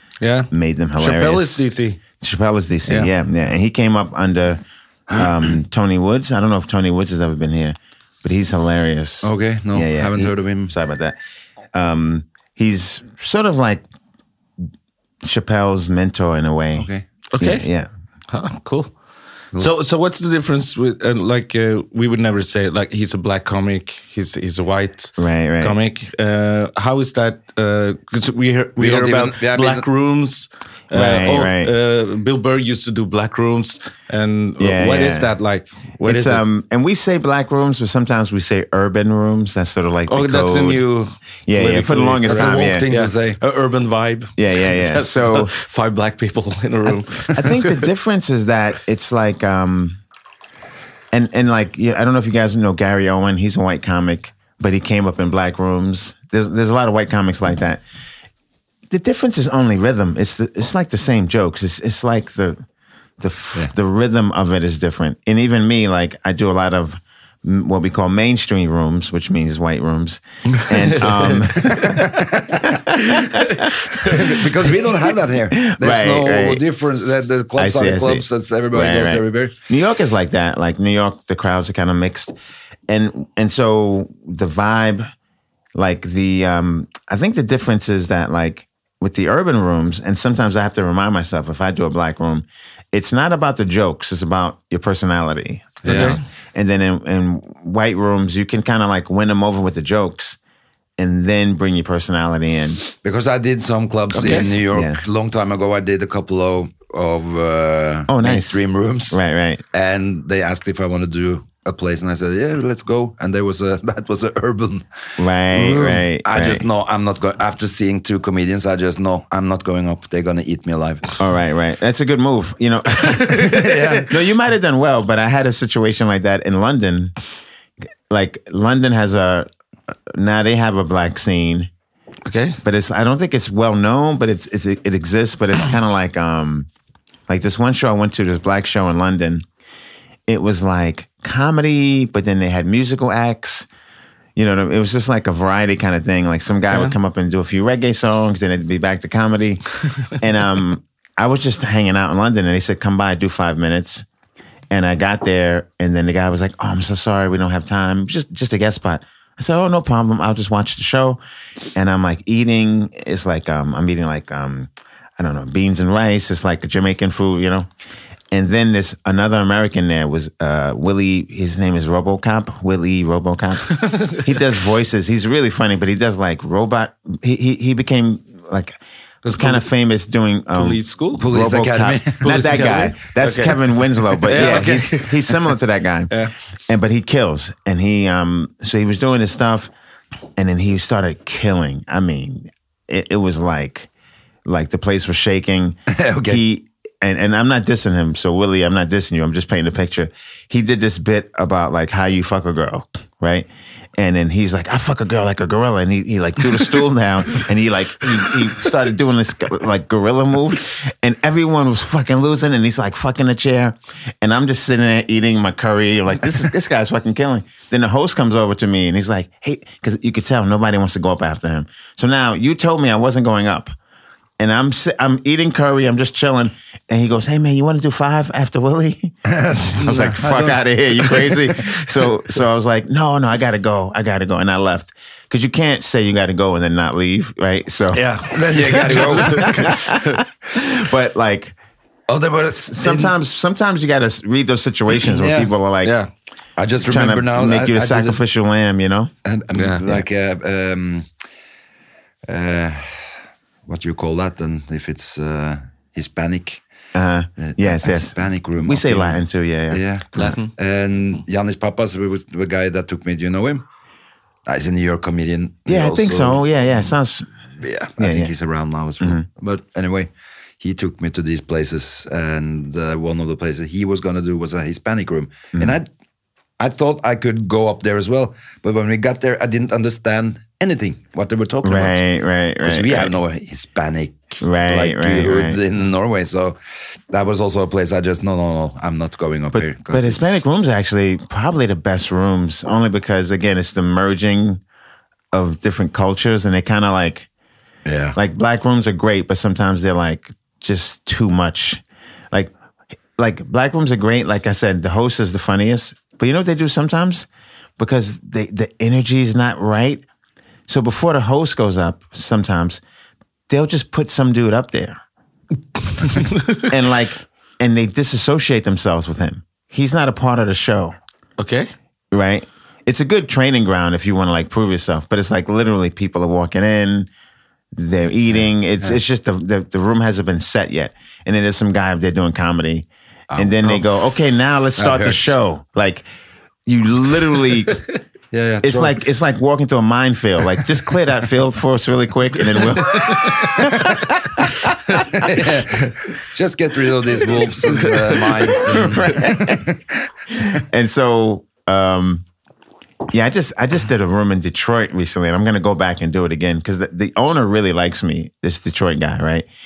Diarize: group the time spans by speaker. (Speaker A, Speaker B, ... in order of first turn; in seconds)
Speaker A: 0.2-2.0, 17.3-17.7, 18.3-18.9, 19.6-36.4, 40.1-47.9, 70.5-71.9, 73.0-74.4, 95.8-96.2, 104.1-104.5, 123.0-123.7, 132.2-132.6, 146.7-146.9, 173.8-174.3, 179.2-179.6, 180.5-181.2, 182.2-185.5, 237.9-240.2, 245.8-246.1, 249.5-249.8, 260.1-260.5, 316.0-316.7, 321.4-321.7, 343.1-343.4, 347.7-348.9
Speaker B: 0.5-1.7, 2.2-11.2, 11.7-13.8, 15.2-17.9, 25.2-25.8, 30.9-31.7, 34.6-35.3, 36.0-40.8, 41.5-42.8, 44.4-45.5, 46.8-50.0, 51.1-57.8, 58.9-62.6, 63.2-73.7, 75.5-76.7, 77.5-82.3, 82.9-85.1, 85.7-100.4, 101.0-102.8, 104.7-105.0, 108.1-109.6, 115.2-116.7, 121.2-127.1, 128.1-129.5, 130.1-131.7, 132.6-136.7, 137.3-139.4, 140.3-143.7, 144.3-154.1, 154.7-161.2, 161.7-167.7, 168.3-186.1, 186.7-189.7, 190.4-193.9, 194.4-223.7, 224.4-229.2, 229.7-241.6, 242.7-245.9, 246.8-249.1, 256.9-260.3, 265.7-267.3, 268.0-268.3, 269.0-269.2, 281.6-283.1, 284.4-285.6, 289.5-294.6, 295.3-297.3, 298.1-302.5, 303.2-307.3, 307.8-310.0, 310.7-312.8, 313.5-315.0, 316.6-320.9, 322.1-327.1, 327.7-336.0, 336.6-337.8, 338.6-345.0, 348.5-349.6, 350.3-352.2, 353.1-359.5
Speaker C: 9.2-10.7, 16.8-17.0, 28.8-29.8, 42.2-43.4, 71.7-72.7, 74.1-79.5, 95.8-96.2, 103.0-109.2, 109.7-114.8, 115.5-121.2, 123.4-124.1, 181.2-182.5, 195.9-196.4, 229.2-230.6, 238.3-239.6, 242.1-243.1, 245.1-245.5, 246.6-248.2, 249.2-251.0, 252.3-253.1, 253.7-256.6, 257.4-263.6, 264.5-266.4, 267.6-270.1, 270.6-275.9, 276.6-282.0, 282.6-286.6, 287.1-290.4, 297.9-298.2, 328.3-329.0, 333.3-334.1, 334.8-335.3, 338.3-339.1, 343.5-344.1, 345.1-349.8